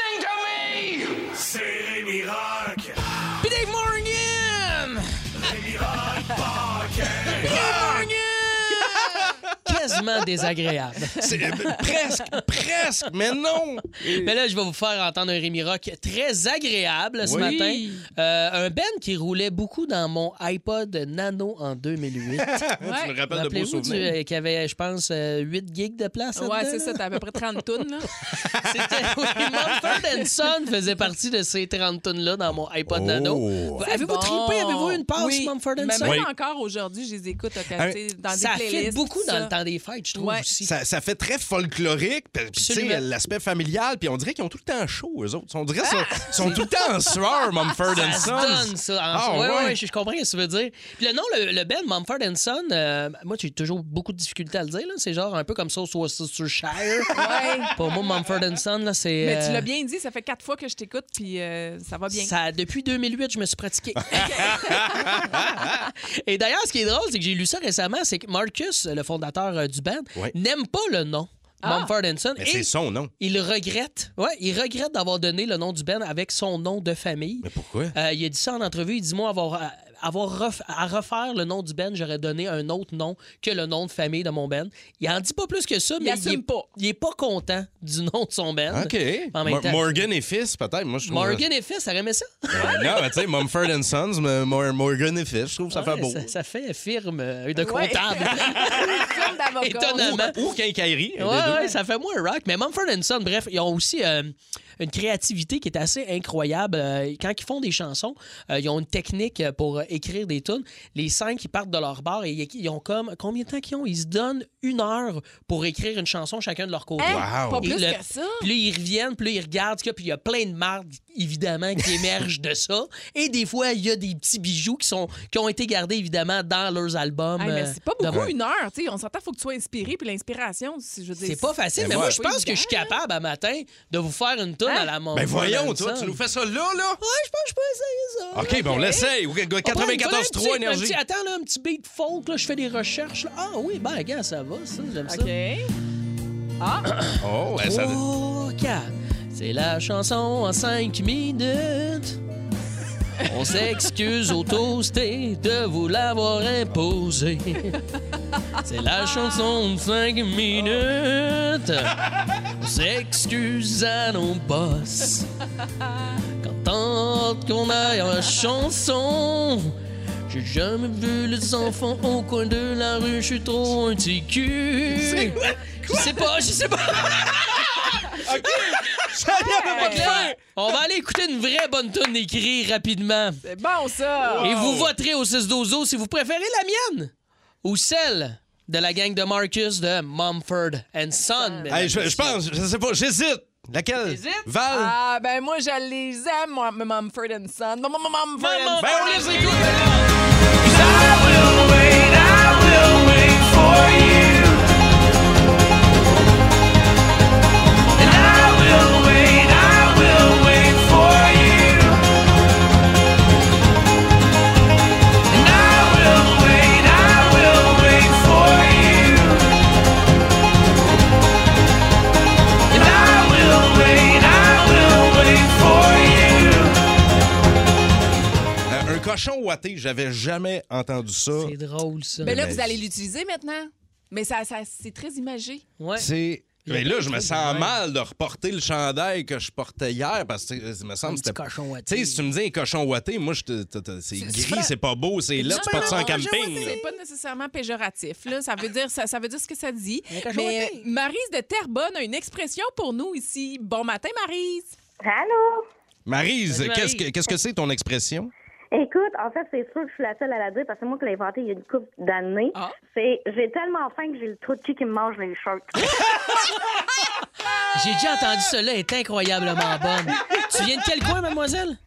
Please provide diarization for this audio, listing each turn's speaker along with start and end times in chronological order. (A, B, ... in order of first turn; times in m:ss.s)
0:00.4-0:00.8 A
0:01.6-0:02.6 A
0:03.4-0:05.1 B
0:07.4-0:08.1 C
0:07.4-0:08.9 B
0:08.7-0:09.4 C
0:09.6-0:12.4 B
0:11.2-0:14.3 C
0:14.0-0:22.6 B
0:17.2-0:17.5 C
0:17.3-0:18.1 D
0:22.4-0:24.1 C
0:22.8-0:23.1 D
0:23.3-0:27.0 B
0:26.4-0:28.1 D
0:28.5-0:36.2 B
0:32.9-0:33.8 C
0:33.8-0:39.5 D
0:36.0-0:36.3 C
0:38.3-0:40.7 B
0:40.2-0:40.5 D
0:40.6-0:49.8 C
0:42.6-0:43.0 B
0:45.8-0:47.2 D
0:47.9-0:57.2 B
0:48.0-0:48.4 D
0:57.2-0:57.7 D
0:57.7-0:59.7 B
0:59.2-1:02.4 D
1:02.1-1:05.3 B
1:04.2-1:05.9 C
1:04.2-1:05.2 D
1:06.2-1:30.1 B
1:11.6-1:11.9 D
1:12.4-1:13.1 C
1:17.4-1:18.0 C
1:26.0-1:26.7 D
1:28.7-1:31.4 C
1:31.0-1:33.3 B
1:32.5-1:36.3 C
1:35.7-1:39.1 B
1:37.6-1:40.2 D
1:38.6-1:38.9 C
1:39.6-1:40.4 B
1:40.0-1:41.7 C
1:41.2-2:08.3 B
1:57.0-1:58.5 D
1:57.0-1:57.7 C
2:07.4-2:13.0 D
2:08.1-2:08.3 C
2:11.2-2:16.2 B
2:11.8-2:12.2 C
2:14.7-2:14.9 D
2:15.1-2:17.0 C
2:17.0-2:19.1 B
2:18.3-2:21.0 C
2:19.6-2:25.3 B
2:25.1-2:25.7 D
2:26.6-2:26.9 D
2:26.9-2:32.2 B
2:27.2-2:28.0 C
2:33.3-2:37.8 B
2:38.6-2:42.0 B
2:42.6-2:45.3 B
2:46.4-2:49.8 B
2:50.3-2:58.6 B
2:55.0-2:56.1 C
2:58.1-3:00.4 C
2:59.3-3:00.4 D
2:59.6-3:03.4 B
3:03.4-3:04.5 D
3:04.2-3:04.9 C
3:04.4-3:07.1 B
3:07.6-3:12.4 B
3:11.4-3:11.7 D
3:11.7-3:14.9 C
3:14.0-3:14.5 B
3:14.7-3:19.7 D
3:18.4-3:20.1 B
3:18.8-3:19.9 C
3:20.7-3:24.6 A
3:28.0-3:32.0 A
3:35.3-3:39.4 A
3:42.7-3:46.7 A
3:48.7-3:51.5 C
3:51.3-3:52.4 B
3:52.2-3:52.8 C
3:52.2-3:55.6 D
3:55.8-3:56.1 B
3:56.0-4:06.8 C
3:56.6-3:57.8 B
4:01.0-4:02.3 B
4:04.2-4:04.7 D
4:05.4-4:06.9 B
4:05.4-4:14.8 D
4:10.1-4:10.8 B
4:15.0-4:15.7 E
4:16.1-4:18.3 C
4:16.5-4:17.3 B
4:18.7-4:25.9 E
4:27.7-4:31.8 B